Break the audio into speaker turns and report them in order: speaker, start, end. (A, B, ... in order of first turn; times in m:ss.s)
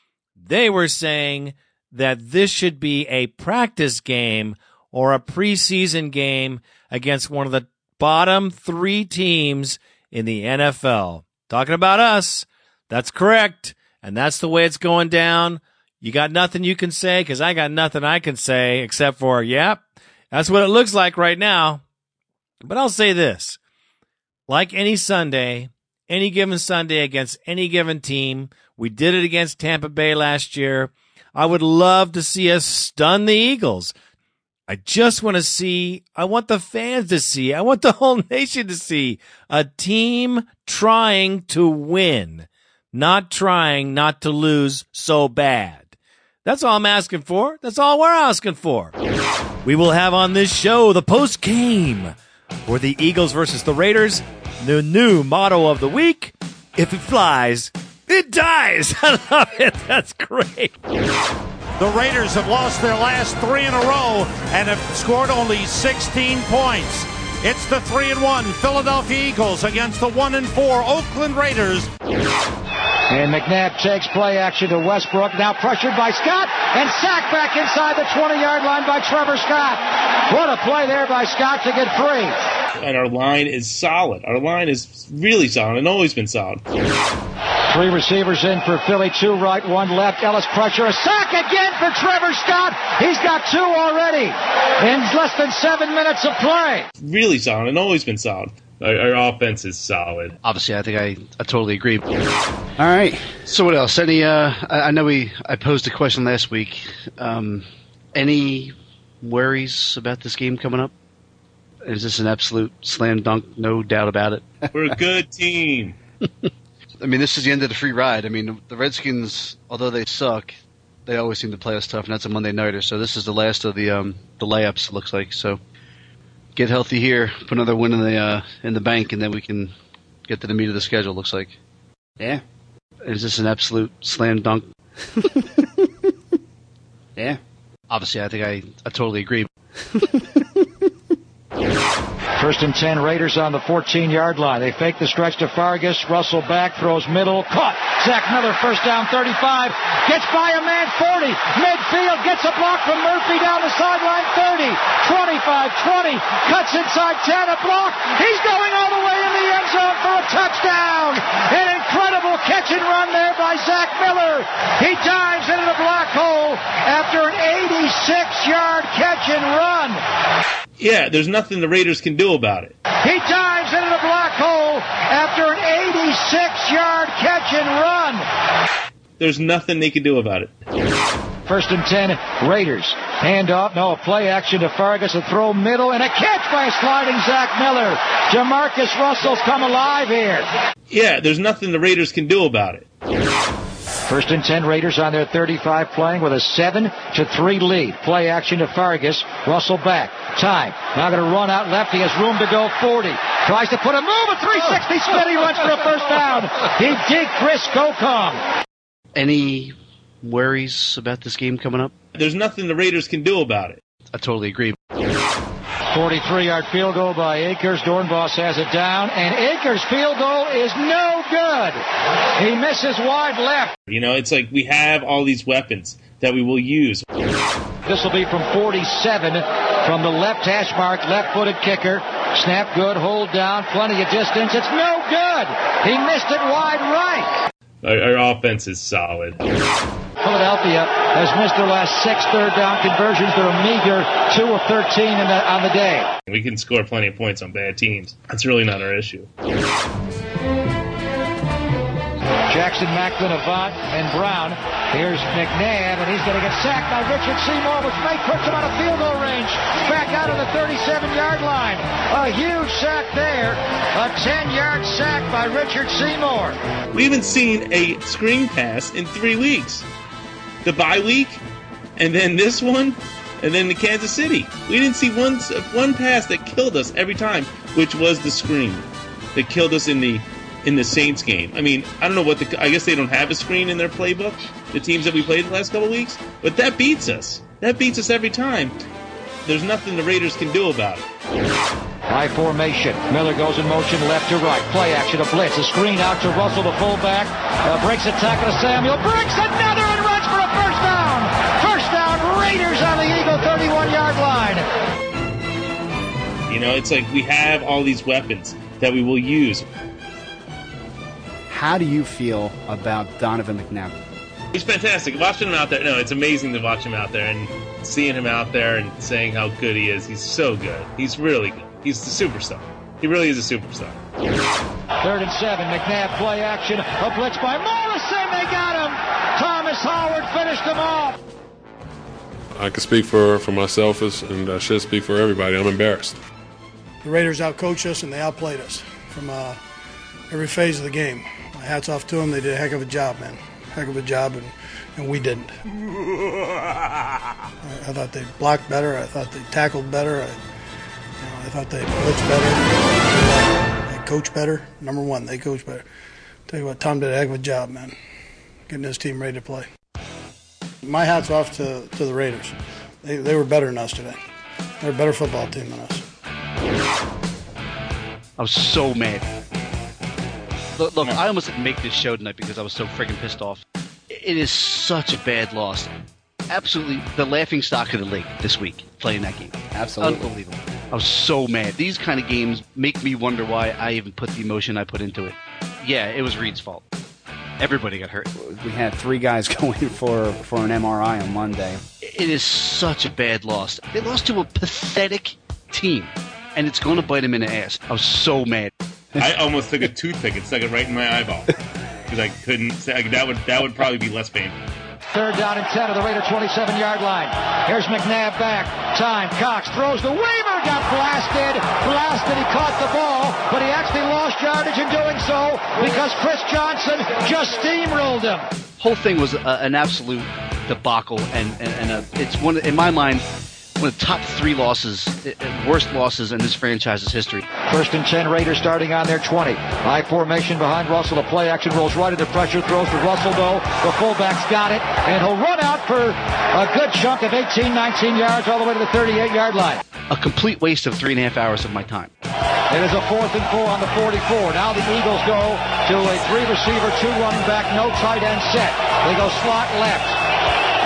0:00.4-0:21.8 A
0:22.6-0:23.6 A
0:24.5-0:33.9 A
0:34.7-0:45.9 A
0:46.4-0:48.9 A
0:49.6-0:52.1 A
0:52.7-1:00.7 A
1:01.8-1:11.9 B
1:13.1-1:22.4 C
1:22.8-1:26.6 D
1:27.7-1:36.9 C
1:37.0-1:40.4 D
1:40.4-1:42.0 E
1:42.8-1:50.9 E
1:51.8-1:54.6 E
1:54.7-1:56.0 D
1:57.0-2:05.6 E
2:06.6-2:09.7 E
2:10.3-2:11.5 E
2:13.0-2:14.7 E
2:17.9-2:19.5 E
2:22.4-2:50.0 C
2:50.8-2:52.8 D
2:53.0-2:58.2 C
2:59.2-3:00.6 D
3:01.5-3:10.5 C
3:10.9-3:12.8 D
3:14.1-3:28.4 C
3:29.2-3:31.9 E
3:32.1-3:33.8 D
3:34.1-3:34.8 E
3:35.9-3:41.8 C
3:42.4-3:43.7 C
3:43.9-3:47.0 D
3:47.9-3:57.3 C
3:57.8-3:59.4 D
4:00.2-4:06.1 C
4:06.3-4:09.3 D
4:12.5-4:26.6 C
4:26.9-4:29.9 D
4:30.6-4:31.4 D
4:32.0-4:48.8 D
4:49.4-4:51.1 D
4:52.1-5:04.6 C
5:06.5-5:09.6 D
5:11.5-5:14.0 F
5:14.5-5:24.0 D
5:25.0-5:31.2 C
5:32.5-5:36.2 G
5:37.0-5:39.6 H
5:40.3-5:45.6 H
5:47.6-5:50.4 H
5:51.2-5:55.8 H
5:56.5-5:58.0 H
5:58.7-5:59.7 H
6:00.8-6:04.2 H
6:04.8-6:06.0 H
6:08.4-6:09.2 E
6:10.8-6:15.9 E
6:16.5-6:26.8 E
6:19.7-6:20.3 F
6:27.6-6:28.3 E
6:28.4-6:31.8 F
6:32.0-6:38.7 E
6:39.2-6:41.5 D
6:42.1-6:44.6 D
6:45.1-6:58.5 C
6:58.8-7:03.2 E
7:03.8-7:07.4 E
7:07.7-7:19.8 C
7:20.1-7:22.1 E
7:22.7-7:30.2 C